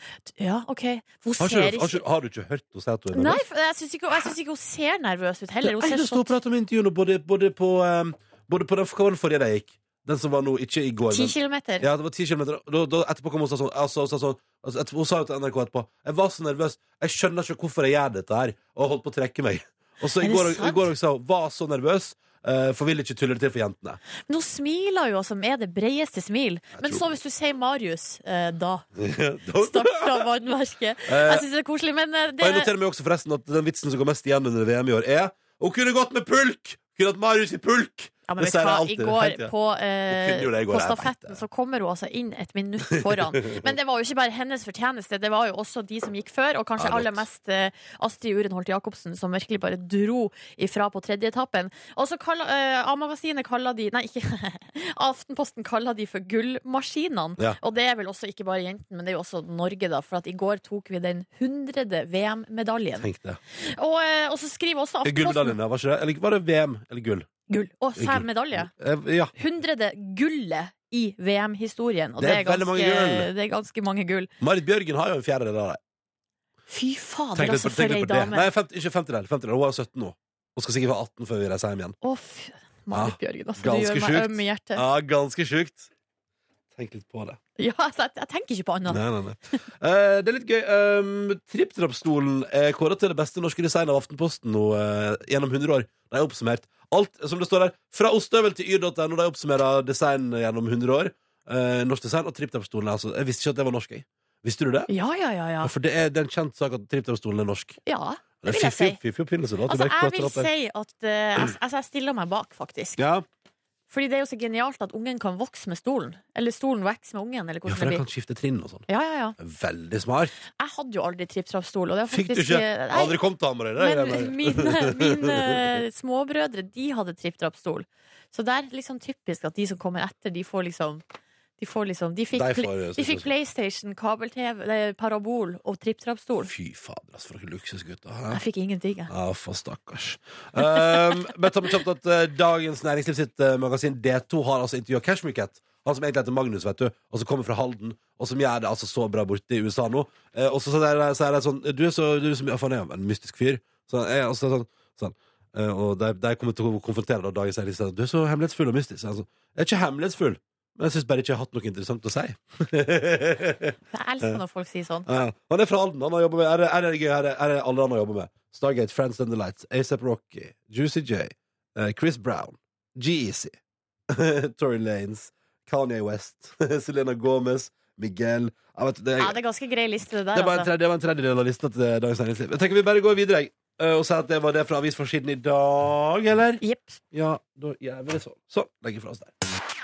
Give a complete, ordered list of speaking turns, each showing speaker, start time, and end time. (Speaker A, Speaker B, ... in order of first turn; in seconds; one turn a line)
Speaker A: 0.3-2.0
Speaker B: 1.4-3.4
Speaker A: 3.1-6.3
Speaker B: 5.6-24.0
Speaker A: 11.1-11.9
Speaker A: 20.2-20.9
Speaker A: 24.3-28.9
Speaker B: 26.7-27.1
Speaker B: 29.0-30.2
Speaker A: 29.6-32.7
Speaker B: 31.1-31.5
Speaker B: 32.4-39.5
Speaker A: 38.3-63.1
Speaker B: 40.1-41.4
Speaker B: 43.0-43.7
Speaker B: 46.8-47.2
Speaker B: 63.0-63.4
Speaker A: 63.6-65.6
Speaker B: 65.0-67.3
Speaker A: 67.5-68.7
Speaker B: 68.0-69.3
Speaker A: 69.3-74.3
Speaker B: 72.2-73.3
Speaker B: 74.4-75.8
Speaker A: 76.7-78.5
Speaker B: 77.3-82.0
Speaker A: 82.0-84.8
Speaker B: 82.9-85.9
Speaker B: 86.8-87.4
Speaker A: 87.6-89.0
Speaker B: 88.9-104.9
Speaker A: 104.9-105.7
Speaker B: 105.6-107.8
Speaker A: 107.9-109.0
Speaker B: 108.4-110.5
Speaker A: 109.7-113.0
Speaker B: 113.0-113.2
Speaker A: 113.9-118.0
Speaker B: 117.7-118.9
Speaker A: 118.9-119.4
Speaker B: 119.4-120.3
Speaker A: 120.6-123.2
Speaker B: 122.1-125.8
Speaker A: 123.8-131.0
Speaker A: 131.6-136.5
Speaker B: 132.3-133.3
Speaker B: 136.4-138.4
Speaker A: 138.3-139.1
Speaker B: 139.1-164.4
Speaker A: 163.9-165.1
Speaker B: 165.1-173.6
Speaker B: 174.1-179.4
Speaker A: 179.2-180.7
Speaker B: 180.3-189.3
Speaker A: 186.6-187.0